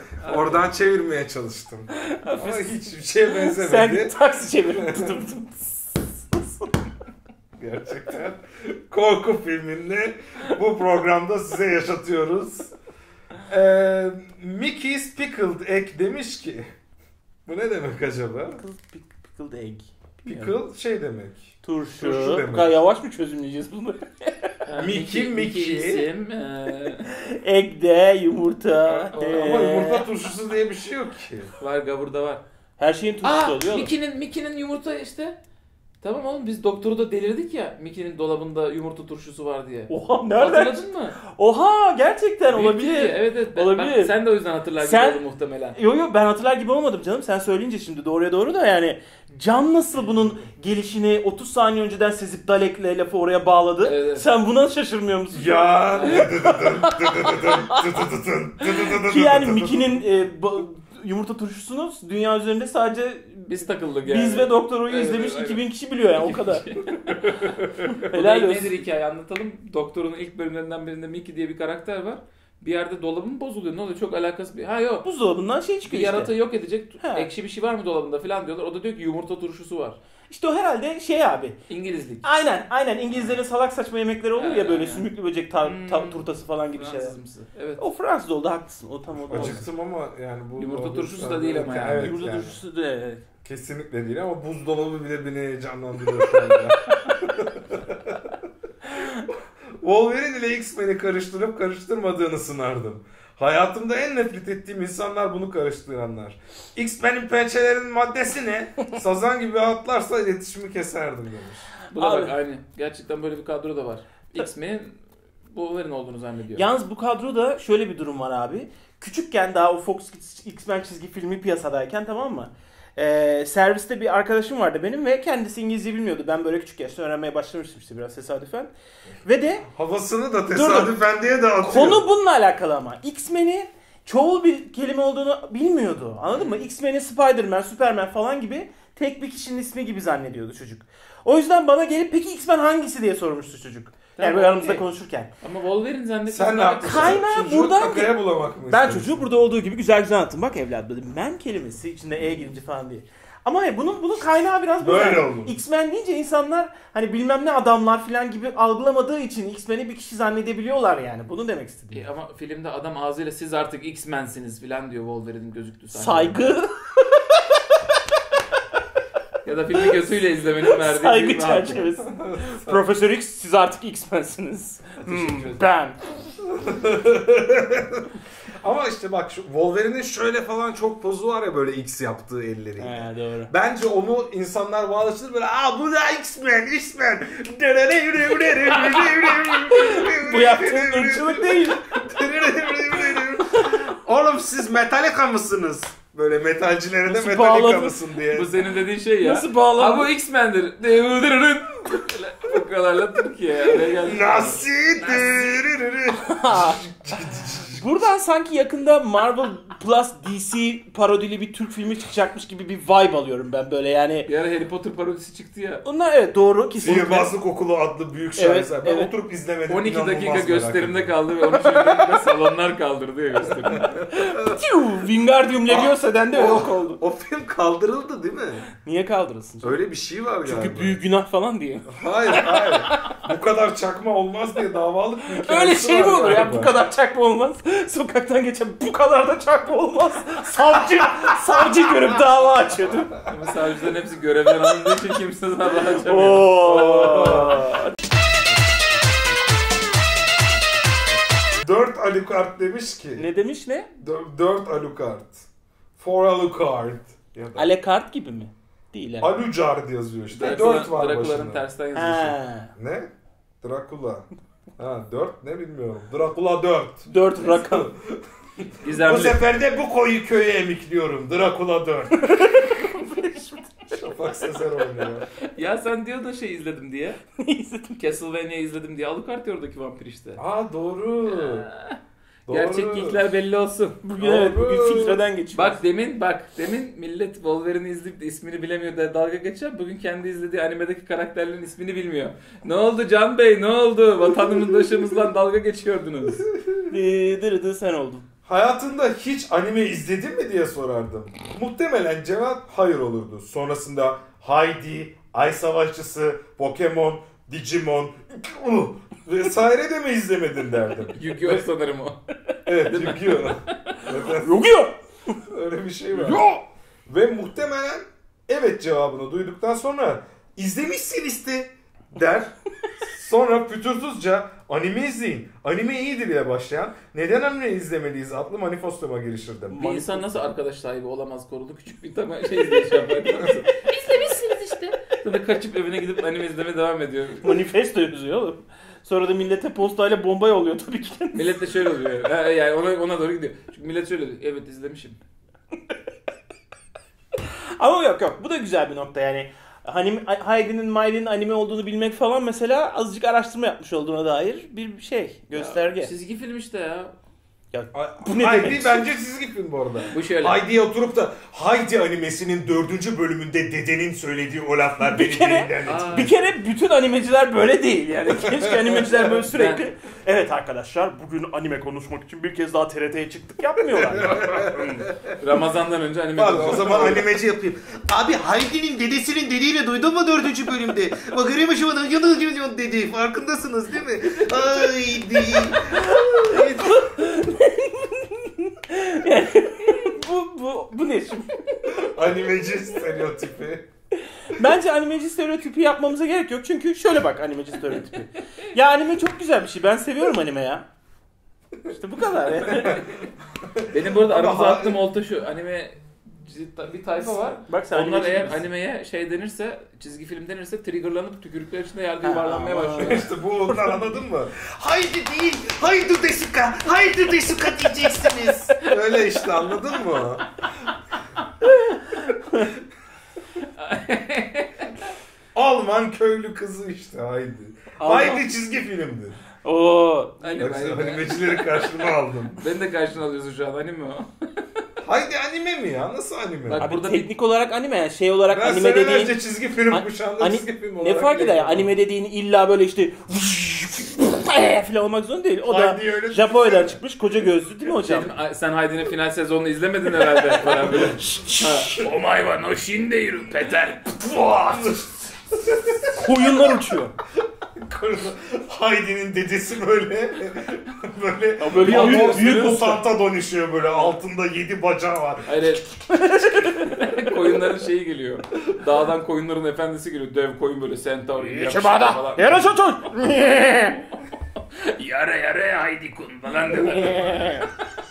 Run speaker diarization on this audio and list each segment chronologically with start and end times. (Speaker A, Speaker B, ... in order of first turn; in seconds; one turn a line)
Speaker A: 0.2-0.7
Speaker B: 0.2-4.2
Speaker C: 1.9-6.8
Speaker B: 4.7-5.3
Speaker B: 7.6-12.7
Speaker B: 13.5-16.7
Speaker B: 17.4-18.6
Speaker C: 18.6-20.5
Speaker B: 20.2-22.7
Speaker C: 21.6-24.5
Speaker A: 24.6-27.1
Speaker B: 24.8-26.1
Speaker C: 27.1-30.1
Speaker A: 28.9-29.6
Speaker B: 29.1-31.5
Speaker A: 31.6-32.4
Speaker C: 32.8-33.9
Speaker A: 33.2-35.4
Speaker A: 36.0-41.2
Speaker C: 39.9-44.1
Speaker A: 42.5-45.8
Speaker C: 44.8-45.2
Speaker C: 45.7-57.9
Speaker A: 53.8-54.2
Speaker B: 55.3-60.0
Speaker A: 55.9-56.6
Speaker C: 58.7-66.6
Speaker A: 63.5-65.6
Speaker A: 66.2-75.0
Speaker C: 67.9-68.8
Speaker C: 75.0-76.3
Speaker A: 75.8-80.0
Speaker C: 77.0-77.3
Speaker C: 80.3-81.6
Speaker A: 81.7-82.2
Speaker C: 82.2-87.2
Speaker A: 83.1-83.4
Speaker A: 84.3-85.1
Speaker A: 85.6-87.8
Speaker C: 87.8-89.7
Speaker B: 89.2-92.6
Speaker A: 90.6-92.2
Speaker C: 91.9-93.2
Speaker B: 93.4-98.3
Speaker B: 99.3-111.7
Speaker A: 111.9-115.0
Speaker C: 111.9-112.3
Speaker A: 115.5-116.7
Speaker C: 116.5-128.7
Speaker C: 129.2-129.7
Speaker B: 129.7-132.1
Speaker C: 130.5-131.0
Speaker C: 131.6-145.3
Speaker A: 136.3-136.6
Speaker A: 144.2-144.9
Speaker A: 145.4-147.2
Speaker B: 146.3-149.2
Speaker C: 146.8-148.2
Speaker C: 148.7-162.0
Speaker B: 154.8-155.5
Speaker A: 161.9-166.5
Speaker C: 165.9-167.8
Speaker A: 169.4-171.9
Speaker C: 170.6-176.0
Speaker B: 172.1-172.8
Speaker B: 175.0-175.6
Speaker B: 176.4-198.5
Speaker C: 182.8-183.5
Speaker C: 188.7-192.1
Speaker C: 197.1-198.0
Speaker A: 198.3-205.5
Speaker C: 199.2-200.1
Speaker B: 204.0-208.0
Speaker C: 206.2-206.8
Speaker C: 207.7-214.3
Speaker A: 214.2-215.8
Speaker C: 215.8-217.3
Speaker B: 216.8-221.1
Speaker C: 218.4-219.1
Speaker A: 219.7-224.0
Speaker B: 223.5-224.6
Speaker C: 224.1-227.0
Speaker B: 225.7-228.6
Speaker C: 228.7-229.8
Speaker B: 229.6-231.0
Speaker C: 230.4-233.2
Speaker B: 231.9-236.7
Speaker C: 235.3-243.2
Speaker A: 243.2-247.3
Speaker C: 245.8-247.9
Speaker B: 246.6-247.8
Speaker B: 251.6-253.2
Speaker C: 253.2-253.9
Speaker B: 254.0-255.4
Speaker B: 256.0-257.7
Speaker C: 257.6-259.3
Speaker B: 259.2-261.6
Speaker A: 260.3-262.4
Speaker C: 261.9-262.7
Speaker B: 262.8-264.3
Speaker B: 264.8-272.6
Speaker C: 267.1-267.9
Speaker A: 268.8-269.4
Speaker C: 272.1-274.0
Speaker B: 273.9-275.3
Speaker A: 275.4-277.2
Speaker C: 277.4-278.0
Speaker A: 278.0-280.4
Speaker B: 280.4-281.6
Speaker A: 281.2-284.0
Speaker B: 282.5-283.2
Speaker C: 284.0-285.8
Speaker B: 284.2-285.2
Speaker A: 285.5-296.4
Speaker C: 296.9-298.2
Speaker B: 298.4-311.6
Speaker A: 311.1-312.2
Speaker B: 312.6-314.7
Speaker A: 312.8-314.0
Speaker C: 314.3-315.4
Speaker B: 315.5-316.6
Speaker C: 316.1-316.6
Speaker B: 317.1-329.9
Speaker C: 329.7-330.3
Speaker A: 329.7-337.6
Speaker C: 333.8-334.6
Speaker C: 337.4-341.6
Speaker A: 341.3-345.2
Speaker C: 347.8-356.1
Speaker A: 355.5-357.1
Speaker C: 357.7-359.0
Speaker B: 357.9-366.3
Speaker A: 360.1-360.6
Speaker C: 365.0-374.4
Speaker A: 365.8-366.3
Speaker B: 368.7-369.0
Speaker A: 369.2-369.9
Speaker B: 373.9-375.4
Speaker A: 374.3-377.3
Speaker B: 376.4-387.1
Speaker C: 384.2-392.1
Speaker B: 391.9-393.9
Speaker C: 394.4-400.8
Speaker C: 401.9-403.1
Speaker B: 402.6-405.0
Speaker A: 402.6-403.0
Speaker A: 403.9-413.3
Speaker C: 407.7-408.6
Speaker C: 412.2-414.0
Speaker B: 413.0-420.5
Speaker C: 421.7-422.7
Speaker A: 423.7-425.1
Speaker B: 425.5-429.4
Speaker C: 428.0-428.4
Speaker C: 429.6-430.7
Speaker A: 430.4-434.3
Speaker B: 430.6-432.6
Speaker B: 435.0-436.9
Speaker A: 436.7-437.3
Speaker C: 436.8-439.4
Speaker B: 438.5-441.9
Speaker C: 439.9-448.3
Speaker B: 445.6-447.0
Speaker A: 448.0-455.0
Speaker B: 450.6-451.4
Speaker C: 450.9-452.0
Speaker B: 454.6-456.3
Speaker C: 456.1-457.1
Speaker B: 457.4-465.6
Speaker C: 461.6-463.0
Speaker A: 461.7-462.8
Speaker A: 463.8-464.1
Speaker A: 465.4-466.0
Speaker C: 466.1-467.0
Speaker A: 466.6-472.7
Speaker C: 471.4-474.0
Speaker A: 474.7-477.7
Speaker C: 476.7-477.7